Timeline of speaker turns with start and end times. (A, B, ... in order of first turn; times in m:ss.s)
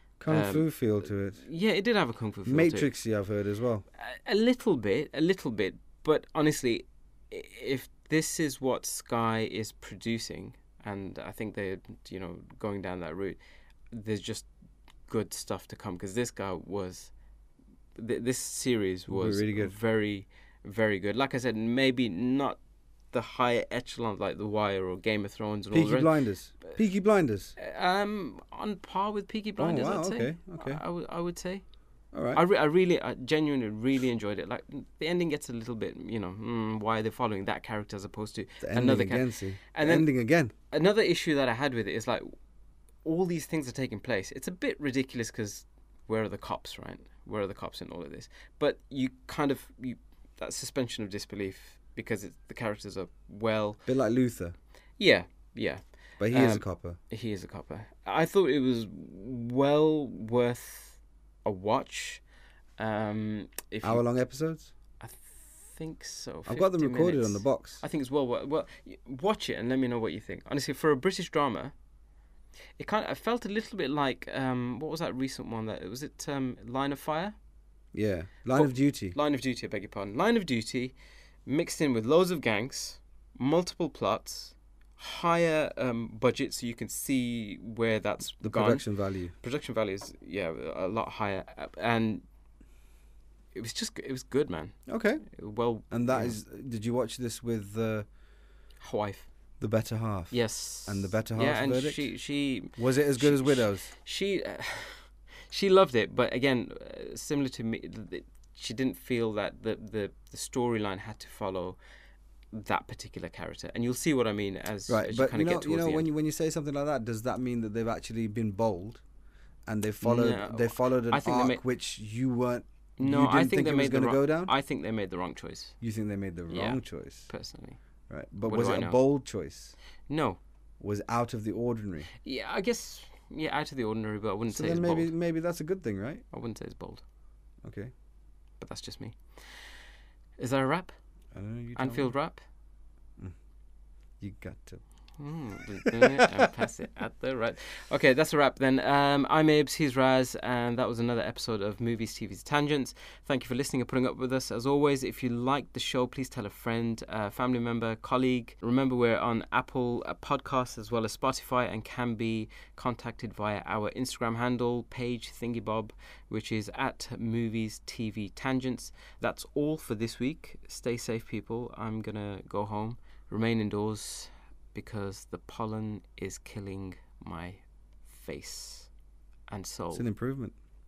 0:00.2-0:01.4 A
0:00.3-0:02.9 B
0:02.4-0:03.8 A
0:04.0-0:13.4 B
0:13.9-0:14.5 B
0:15.1-0:17.1 B
0:18.0-0:22.6 B
0:19.1-0:19.7 A
0:23.1-0:26.1 B
0:25.7-0:27.5 A
0:27.6-0:31.6 B
0:29.6-0:30.8 A
0:32.1-0:32.4 A
0:32.3-0:40.1 B
0:38.6-0:40.5 A
0:40.7-0:42.3 B
0:43.0-0:53.8 B
0:53.8-0:54.5 A
0:55.0-1:02.2 B
0:56.2-0:57.0 A
1:02.8-1:04.0 B
1:03.8-1:04.7 A
1:05.0-1:11.7 B
1:06.5-1:07.8 A
1:12.8-1:17.4 B
1:17.9-1:19.2 A
1:18.5-1:20.9 B
1:21.4-1:28.8 B
1:28.4-1:29.3 A
1:29.4-1:32.2 B
1:33.5-1:36.4 B
1:34.9-1:35.2 A
1:35.9-1:38.1 A
1:38.8-1:39.3 B
1:39.6-1:40.3 A
1:40.3-1:51.8 B
1:40.8-1:42.1 A
1:42.8-1:43.9 A
1:52.5-1:56.1 B
1:54.9-1:59.0 A
1:59.7-2:04.5 A
2:00.0-2:01.6 B
2:03.0-2:05.7 B
2:05.8-2:07.3 A
2:06.5-2:07.8 B
2:08.1-2:09.7 A
2:08.4-2:09.0 B
2:10.1-2:10.4 B
2:10.8-2:12.1 A
2:12.2-2:15.1 B
2:14.5-2:16.2 A
2:16.3-2:17.0 B
2:17.6-2:17.9 A
2:18.6-2:19.6 B
2:20.4-2:20.9 B
2:21.3-2:22.1 A
2:21.8-2:22.4 B
2:24.2-2:24.8 A
2:25.2-2:58.9 B
2:25.8-2:26.2 A
2:59.5-3:00.1 B
2:59.9-3:00.5 A